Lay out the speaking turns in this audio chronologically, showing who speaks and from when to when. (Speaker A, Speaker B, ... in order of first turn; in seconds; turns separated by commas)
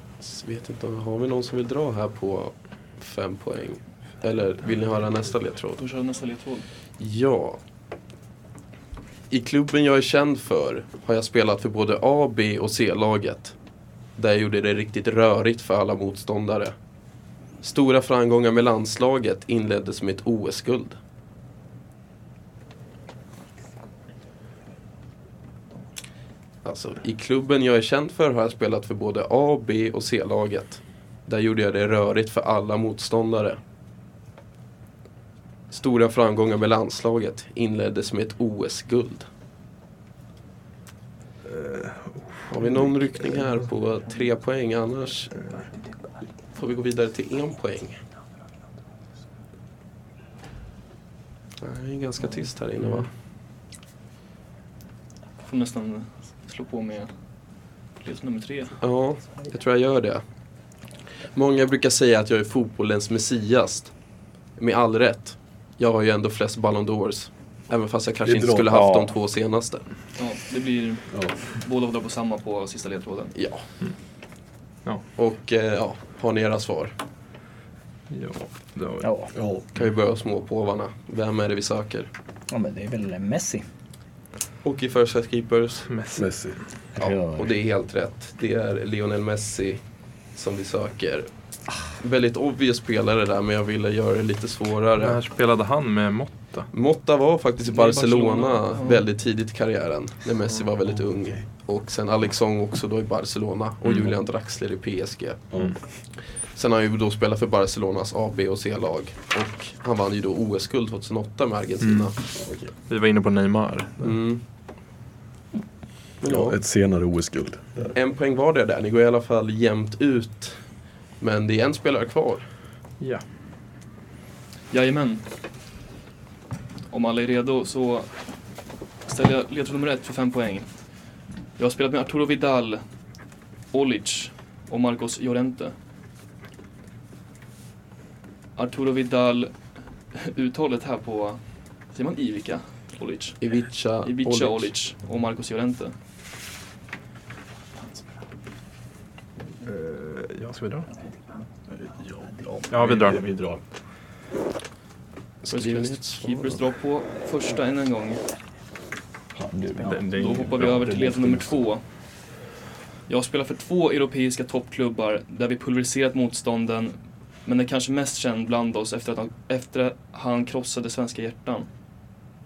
Speaker A: 0.2-5.8, Speaker B: 5.8-6.7, Speaker A: 7.0-7.6, Speaker A: 9.3-13.6, Speaker A: 14.2-16.8, Speaker A: 17.6-21.0, Speaker A: 26.6-33.6, Speaker A: 35.7-39.3, Speaker C: 41.5-42.9, Speaker A: 42.5-45.5, Speaker A: 46.5-48.0, Speaker A: 51.6-53.1, Speaker B: 55.4-57.1, Speaker B: 58.0-58.8, Speaker A: 58.8-60.2, Speaker A: 61.3-63.9, Speaker A: 64.6-69.9, Speaker D: 68.2-68.8, Speaker E: 68.7-69.1, Speaker B: 70.2-73.3, Speaker D: 71.1-71.4, Speaker A: 73.3-73.7, Speaker A: 75.2-76.9, Speaker C: 78.1-79.1, Speaker E: 79.0-79.3, Speaker D: 79.3-79.7, Speaker A: 79.8-82.1, Speaker E: 82.5-83.7, Speaker A: 84.6-85.9, Speaker C: 85.9-86.3, Speaker D: 86.2-86.6, Speaker E: 87.0-87.5, Speaker A: 87.0-89.8, Speaker A: 90.3-91.3, Speaker A: 91.9-95.2, Speaker C: 95.0-96.7, Speaker A: 96.7-105.5, Speaker B: 97.7-99.0, Speaker A: 106.5-112.2, Speaker C: 111.8-112.1, Speaker D: 112.4-112.7, Speaker C: 112.9-114.2, Speaker A: 114.0-114.4, Speaker A: 116.2-116.6, Speaker D: 116.2-117.9, Speaker A: 117.9-120.6, Speaker A: 121.2-122.5, Speaker B: 124.7-125.2, Speaker B: 126.9-128.1, Speaker B: 129.1-130.7, Speaker B: 131.6-132.8, Speaker B: 133.7-135.8, Speaker B: 138.6-139.5, Speaker B: 140.1-143.4, Speaker A: 143.4-144.7, Speaker B: 144.0-145.9, Speaker C: 149.7-150.9, Speaker D: 151.7-153.6, Speaker C: 152.7-153.3, Speaker A: 155.4-156.6, Speaker B: 155.5-158.2, Speaker E: 159.4-160.1, Speaker C: 159.8-161.1, Speaker B: 160.1-161.8, Speaker D: 161.1-161.5, Speaker B: 163.1-171.7